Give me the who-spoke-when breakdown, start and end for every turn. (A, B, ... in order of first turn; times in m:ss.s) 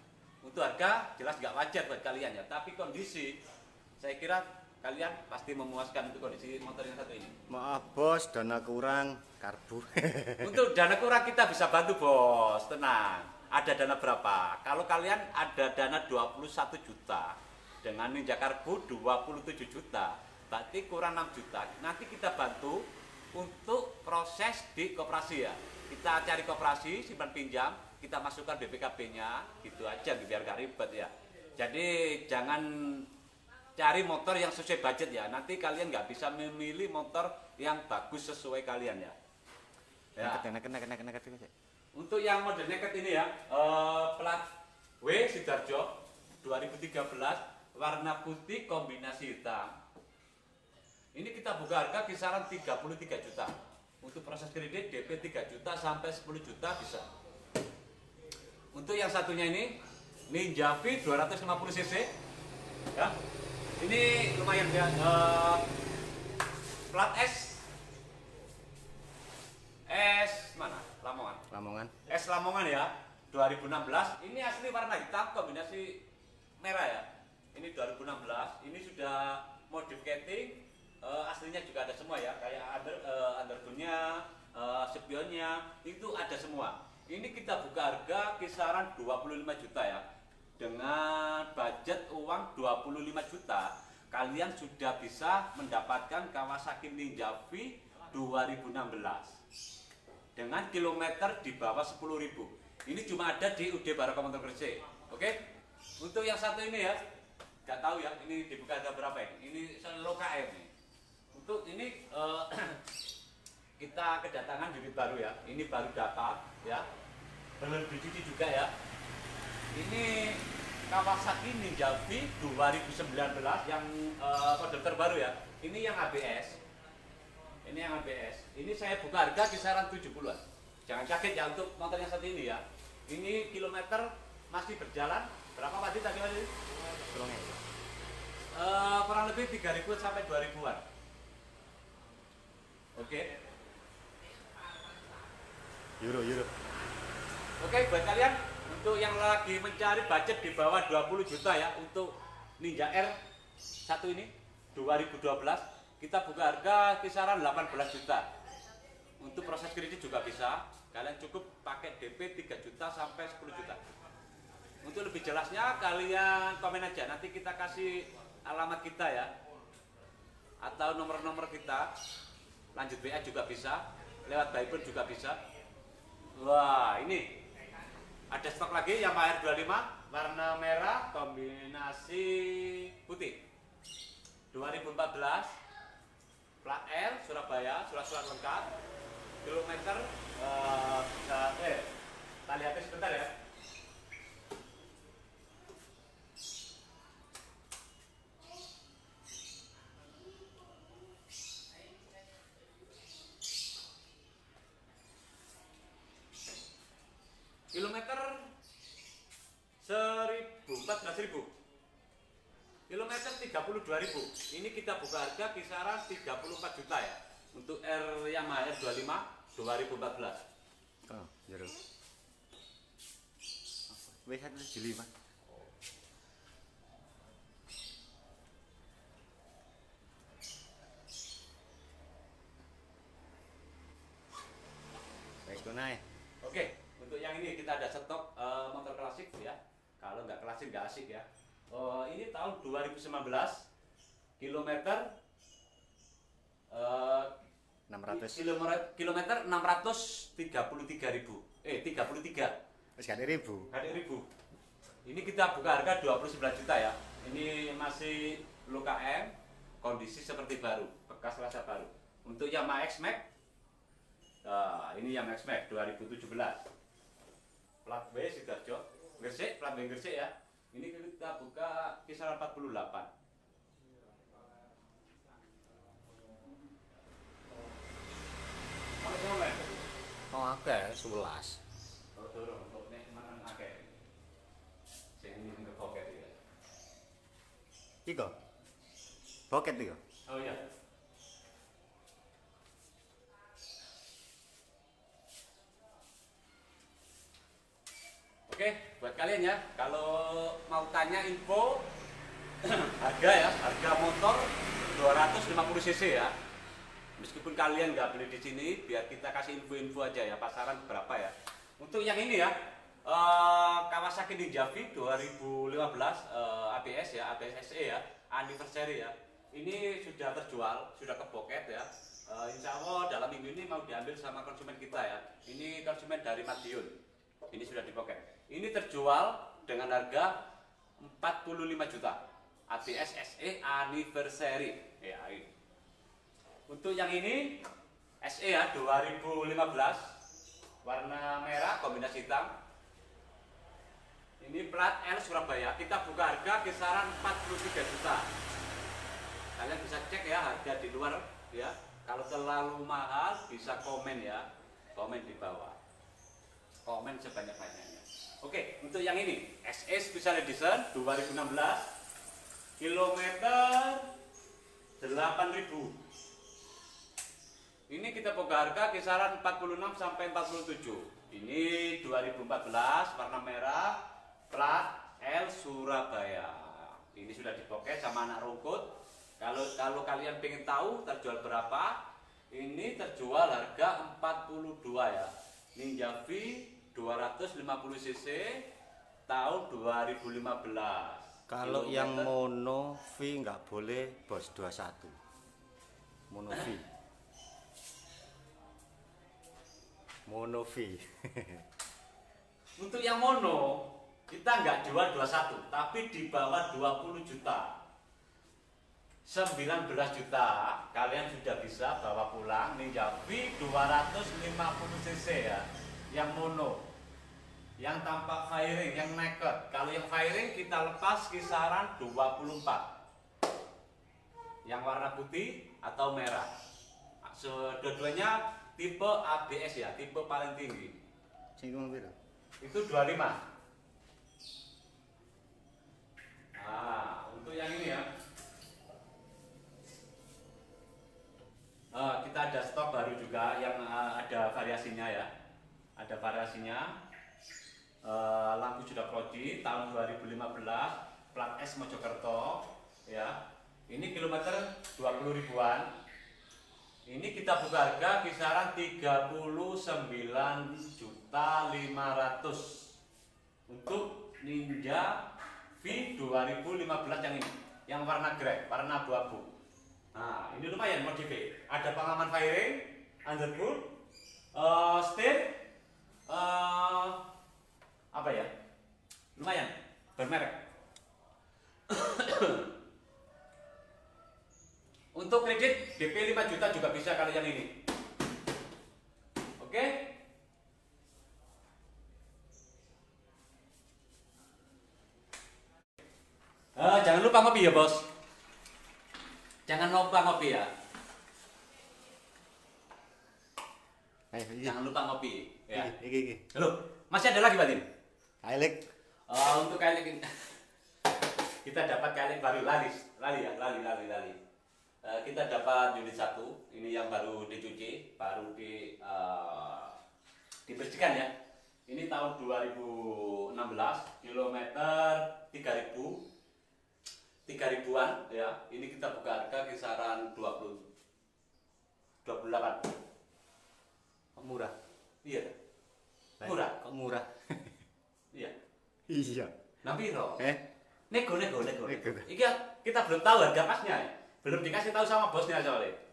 0:00.4-0:03.4 A
0:04.0-0:07.4 A
0:07.5-0:10.5 B
0:10.4-0:33.1 A
0:33.8-0:39.1 A
0:40.2-0:40.4 A
0:40.2-0:41.5 B
0:42.0-0:44.5 A
0:45.0-0:45.9 A
0:46.4-0:49.8 A
0:51.1-0:57.1 A
0:58.7-0:59.7 A
1:00.3-1:02.1 A
1:03.8-1:05.6 A
1:06.9-1:07.7 A
1:09.9-1:11.4 A
1:11.5-1:11.9 B
1:12.1-1:16.0 A
1:16.6-1:30.0 A
1:30.6-1:39.4 A
1:40.4-1:45.4 A
1:46.0-1:47.0 A
1:47.6-1:50.7 A
1:51.3-1:52.8 A
1:53.8-1:56.9 A
1:57.6-1:58.7 A
1:59.7-2:06.6 A
2:07.6-2:16.5 A
2:17.0-2:17.6 B
2:18.5-2:20.8 A
2:23.0-2:23.3 A
2:26.0-2:26.5 B
2:27.6-2:33.2 A
2:33.8-2:38.3 A
2:39.2-2:43.8 A
2:44.8-2:49.3 A
2:50.6-2:51.9 A
2:52.7-2:55.4 A
2:56.3-2:57.3 A
2:58.3-3:03.4 A
3:04.5-3:05.6 A
3:06.6-3:08.7 A
3:09.4-3:11.9 A
3:12.5-3:13.3 A
3:27.7-3:28.5 A
3:29.8-3:31.5 A
3:32.9-3:40.4 A
3:41.1-3:41.8 B
3:43.9-3:45.1 B
3:55.4-3:56.0 B
3:56.4-4:03.7 A
4:04.4-4:05.1 A
4:06.7-4:07.3 A
4:07.9-4:08.5 B
4:08.1-4:12.6 A
4:13.0-4:13.7 B
4:13.7-4:14.3 A
4:15.0-4:23.2 A
4:24.4-4:26.7 A
4:27.8-4:33.1 A
4:39.0-4:39.9 A
4:40.3-4:41.6 B
4:42.2-4:43.9 A
4:45.2-4:46.4 A
4:48.0-4:48.3 B
4:49.5-4:50.0 B
4:50.3-4:50.6 A
4:58.5-5:01.9 A
5:02.6-5:06.3 A
5:07.2-5:12.5 A
5:13.0-5:27.0 A
5:27.5-5:30.3 A
5:31.0-5:35.5 A
5:36.7-5:37.6 A
5:38.2-5:40.1 A
5:40.8-5:42.5 A
5:44.4-5:48.3 A
5:49.6-5:55.8 A
5:56.8-6:01.9 A
6:02.8-6:04.1 A
6:05.0-6:06.0 A
6:07.9-6:14.0 A
6:14.5-6:18.8 A
6:19.4-6:22.0 A
6:22.5-6:28.6 A
6:29.3-6:32.3 A
6:31.5-6:35.2 B
6:36.3-6:36.8 B
6:40.3-6:41.6 B
6:42.8-6:47.7 A
6:49.2-6:56.8 A
6:57.8-7:02.9 A
7:04.6-7:06.5 A
7:07.2-7:11.0 A
7:11.6-7:12.1 B
7:12.6-7:13.4 A
7:16.6-7:18.0 A
7:21.9-7:25.3 A
7:26.0-7:26.9 A
7:28.0-7:33.4 A
7:33.9-7:35.9 A
7:37.1-7:42.9 A
7:43.7-7:45.3 A
7:45.8-7:49.5 A
7:50.1-7:53.9 A
7:54.5-7:55.6 A
7:56.3-7:57.2 A
7:58.1-7:58.5 A
7:59.4-8:00.6 A
8:01.9-8:02.7 A
8:05.1-8:07.7 A
8:09.6-8:10.1 A
8:16.8-8:18.1 A
8:19.7-8:20.7 A
8:24.3-8:24.8 B
8:24.6-8:25.9 A
8:25.7-8:26.4 B
8:26.5-8:27.9 A
8:28.4-8:28.8 B
8:29.3-8:30.5 A
8:31.6-8:34.4 A
8:35.0-8:40.0 A
8:40.7-8:41.3 A
8:41.9-8:46.2 A
8:47.5-8:50.9 A
8:52.2-8:52.9 A
8:54.4-8:54.7 B
8:55.2-8:55.5 A
8:56.4-8:57.8 B
8:56.4-8:56.7 A
8:59.1-8:59.5 B
8:59.8-9:00.4 A
9:01.1-9:06.0 A
9:01.8-9:02.3 B